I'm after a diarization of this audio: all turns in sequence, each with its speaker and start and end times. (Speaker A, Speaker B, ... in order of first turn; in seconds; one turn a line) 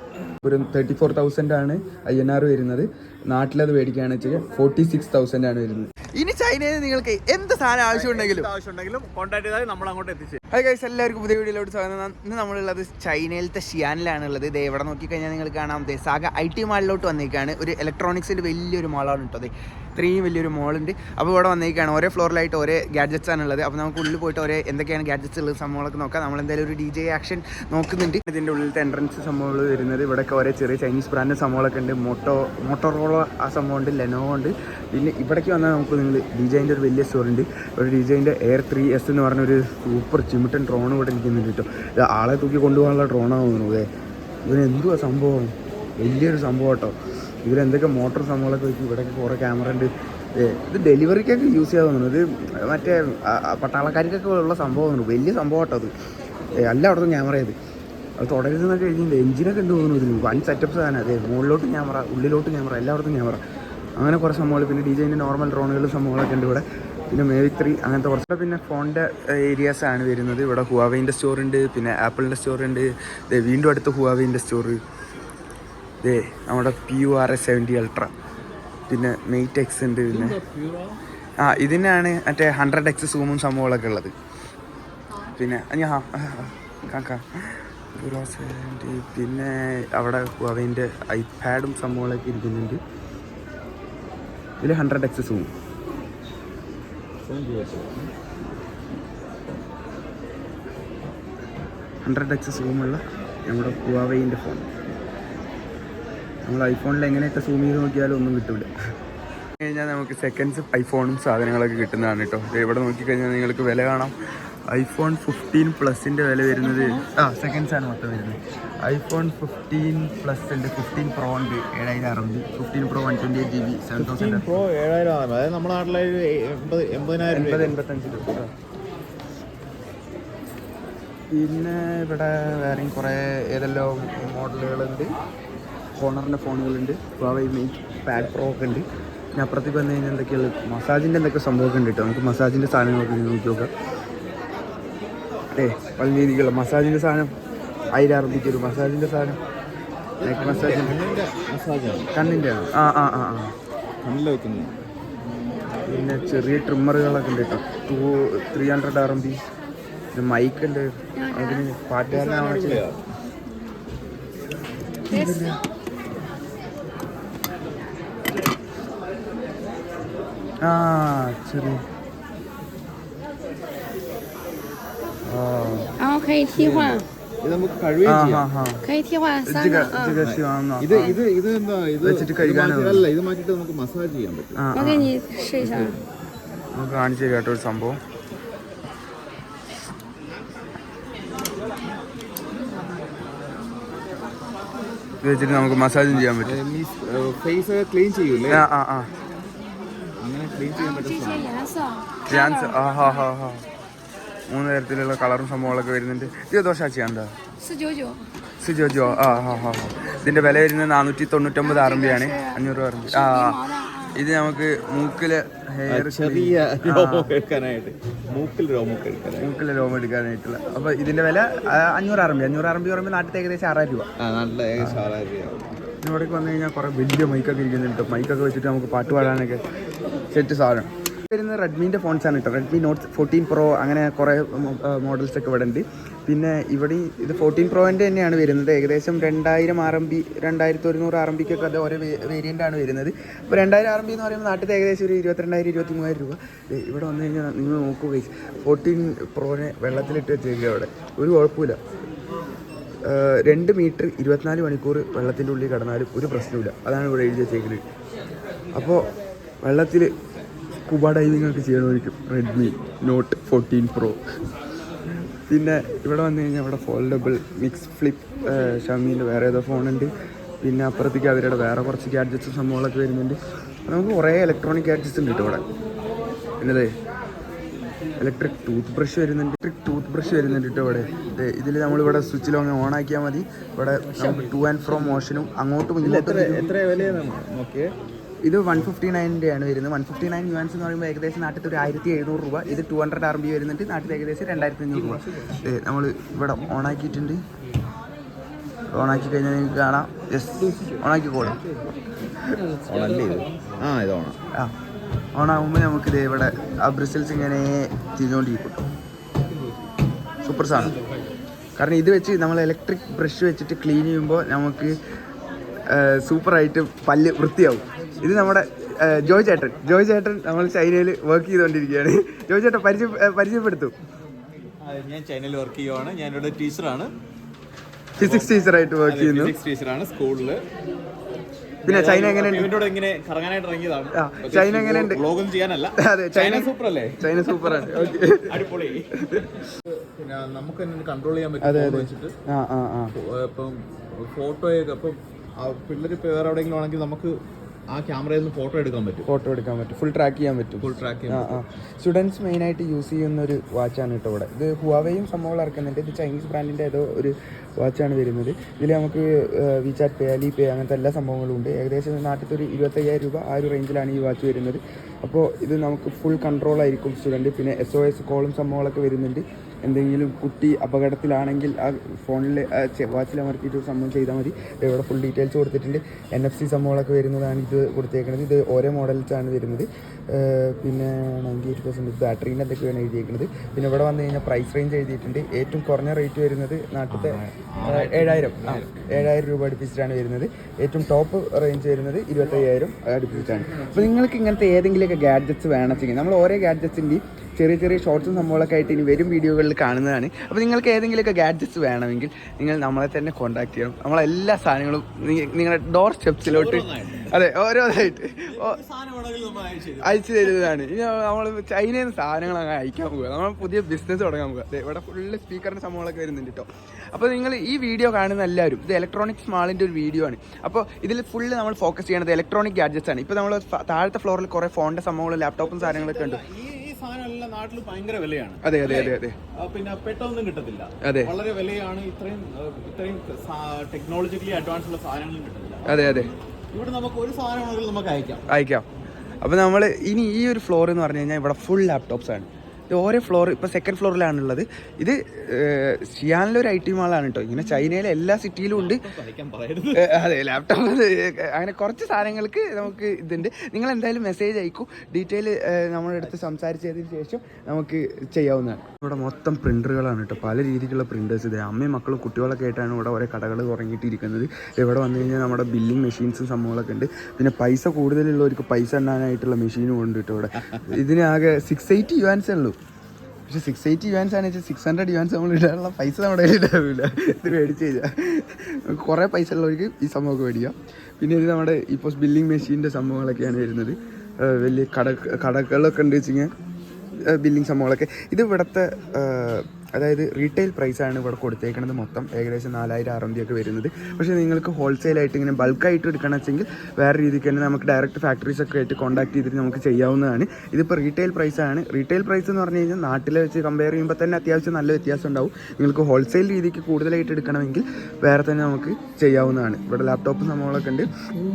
Speaker A: 0.4-8.5
Speaker B: 7.9-10.4
Speaker A: 10.5-43.9
Speaker A: 44.5-55.9
Speaker A: 56.5-57.5
Speaker A: 58.2-63.4
Speaker A: 64.0-74.8
Speaker A: 76.0-78.1
Speaker A: 78.9-80.4
Speaker B: 80.1-81.0
Speaker A: 81.4-84.1
Speaker A: 85.3-92.8
Speaker A: 94.6-95.5
Speaker B: 97.2-98.1
Speaker A: 102.0-104.7
Speaker A: 106.5-108.7
Speaker A: 109.6-114.1
Speaker A: 114.7-124.5
Speaker B: 124.0-127.8
Speaker A: 127.3-128.5
Speaker A: 131.3-135.1
Speaker A: 136.0-138.8
Speaker A: 139.3-143.7
Speaker A: 145.5-147.3
Speaker A: 147.9-149.4
Speaker B: 150.2-152.3
Speaker A: 150.2-150.9
Speaker A: 152.1-153.5
Speaker B: 154.0-154.7
Speaker A: 155.9-159.4
Speaker A: 160.1-162.8
Speaker C: 161.2-161.7
Speaker B: 162.1-163.0
Speaker A: 165.1-165.6
Speaker C: 165.1-165.6
Speaker A: 170.6-171.8
Speaker A: 175.3-175.9
Speaker C: 176.0-177.1
Speaker B: 176.5-178.5
Speaker A: 178.1-178.8
Speaker C: 178.8-180.2
Speaker A: 179.4-181.2
Speaker B: 180.2-184.6
Speaker A: 182.0-183.1
Speaker A: 184.6-185.1
Speaker C: 184.7-186.0
Speaker B: 185.6-186.1
Speaker A: 186.7-188.0
Speaker A: 195.2-196.6
Speaker B: 196.1-198.7
Speaker A: 198.5-199.1
Speaker B: 200.2-201.5
Speaker C: 200.8-203.0
Speaker A: 202.3-203.6
Speaker A: 204.5-207.3
Speaker C: 207.6-208.2
Speaker A: 208.6-217.3
Speaker C: 211.6-214.2
Speaker B: 215.9-219.5
Speaker A: 219.4-224.1
Speaker B: 224.2-225.6
Speaker A: 226.0-229.6
Speaker A: 230.3-251.8
Speaker A: 253.0-257.8
Speaker A: 258.7-259.0
Speaker A: 259.6-260.1
Speaker A: 260.8-264.2
Speaker A: 265.5-270.1
Speaker A: 270.6-275.6
Speaker A: 276.6-276.9
Speaker A: 278.2-286.7
Speaker B: 286.0-287.9
Speaker A: 288.4-297.4
Speaker B: 295.0-295.5
Speaker A: 298.9-301.6
Speaker B: 300.7-301.9
Speaker B: 302.9-304.4
Speaker A: 305.4-308.8
Speaker B: 309.4-309.7
Speaker A: 310.4-310.9
Speaker B: 310.7-311.0
Speaker A: 311.8-314.9
Speaker A: 315.9-323.9
Speaker B: 324.8-327.1
Speaker A: 328.2-329.5
Speaker B: 328.2-330.6
Speaker B: 331.8-339.1
Speaker A: 331.9-332.7
Speaker A: 334.1-335.2
Speaker A: 336.0-338.5
Speaker A: 339.2-339.5
Speaker B: 339.9-342.3
Speaker A: 341.6-343.1
Speaker B: 343.1-347.3
Speaker B: 347.9-349.3
Speaker A: 349.2-408.8
Speaker B: 350.8-351.6
Speaker B: 387.1-389.3
Speaker B: 406.4-407.3
Speaker B: 408.4-410.4
Speaker A: 410.0-426.4
Speaker B: 425.6-438.4
Speaker A: 428.6-429.4
Speaker A: 431.0-431.3
Speaker A: 435.9-436.3
Speaker A: 438.5-438.9
Speaker A: 439.4-449.0
Speaker B: 448.7-450.1
Speaker A: 449.9-472.8
Speaker A: 473.5-486.5
Speaker A: 487.3-511.1